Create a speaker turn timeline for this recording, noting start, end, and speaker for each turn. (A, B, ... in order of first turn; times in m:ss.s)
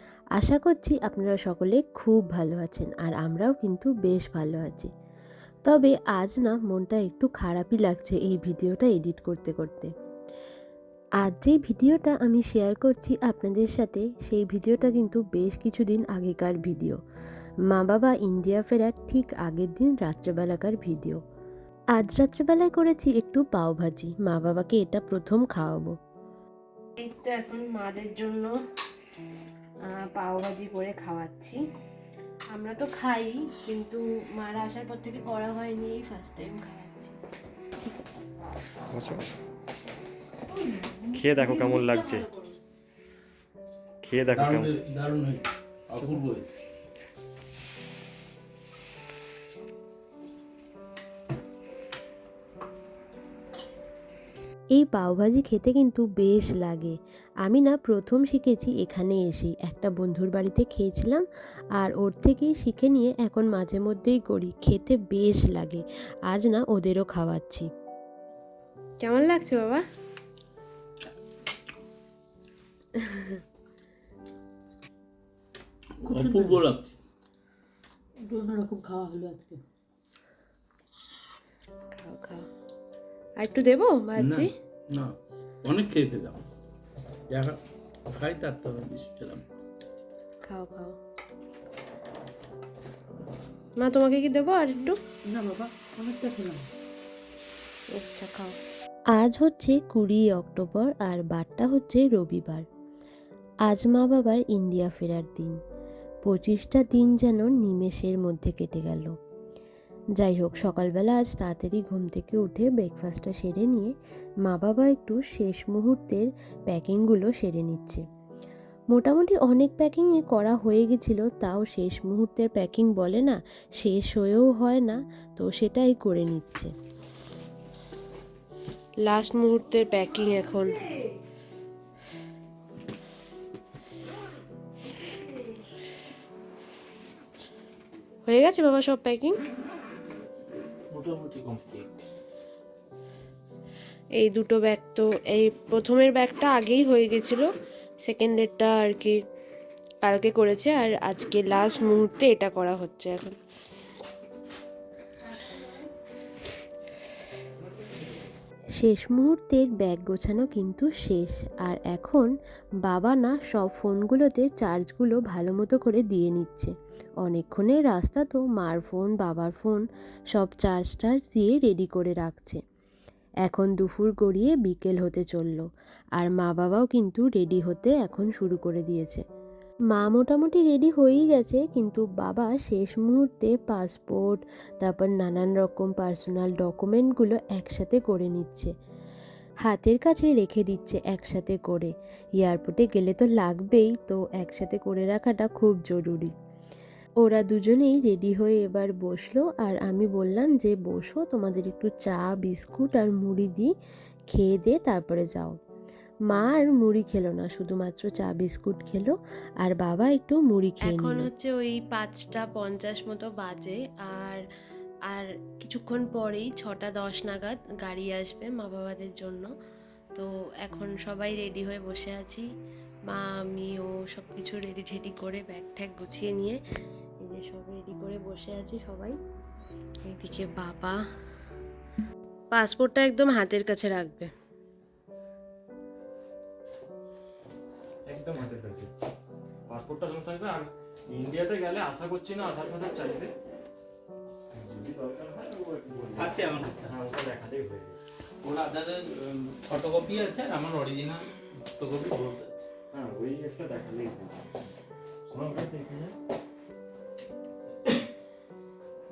0:00.4-0:04.9 A
0:05.7-0:09.9 A
0:11.2-0:17.0 A
0:17.7-0:21.2 A
0:22.0-0:26.0 A
0:27.0-0:28.5 B
0:29.8-0:31.6 B
0:32.5-0:37.2 B
0:38.9-0:39.2 C
0:41.1-0:42.3 C
0:41.6-0:42.2 B
0:44.0-0:44.8 C
0:44.3-0:46.5 D
0:54.8-1:01.2 A
1:01.8-1:07.7 A
1:09.0-1:09.8 B
1:16.1-1:16.6 E
1:16.1-1:16.9 D
1:18.2-1:19.6 E
1:21.9-1:22.4 B
1:23.4-1:24.5 B
1:24.2-1:26.4 D
1:27.3-1:29.4 D
1:30.4-1:31.0 B
1:33.8-1:35.0 B
1:35.2-1:36.7 E
1:37.9-1:38.6 B
1:39.1-1:42.7 A
1:43.7-1:45.6 A
1:46.2-1:49.1 A
1:50.2-1:53.9 A
1:54.5-1:58.0 A
1:58.9-2:06.7 A
2:09.1-2:10.8 B
2:18.3-2:19.4 B
2:20.9-2:21.9 C
2:24.2-2:27.5 B
2:28.0-2:29.2 B
2:30.0-2:33.4 B
2:38.8-2:42.3 A
2:42.8-2:52.6 A
2:53.5-2:55.7 A
2:56.2-2:59.2 A
2:59.9-3:08.7 A
3:09.6-3:16.3 A
3:17.2-3:23.7 A
3:24.3-3:25.5 A
3:26.3-3:31.3 A
3:30.8-3:34.4 B
3:35.2-3:39.4 B
3:40.7-3:42.4 B
3:43.5-3:46.6 B
3:47.2-3:49.1 B
3:50.0-3:51.0 B
3:52.5-3:54.3 B
3:58.1-3:58.9 C
3:59.7-4:03.3 C
4:04.5-4:08.0 C
4:06.2-4:06.8 D
4:08.4-4:11.2 D
4:11.8-4:12.6 D
4:12.9-4:14.4 C
4:15.3-4:16.1 C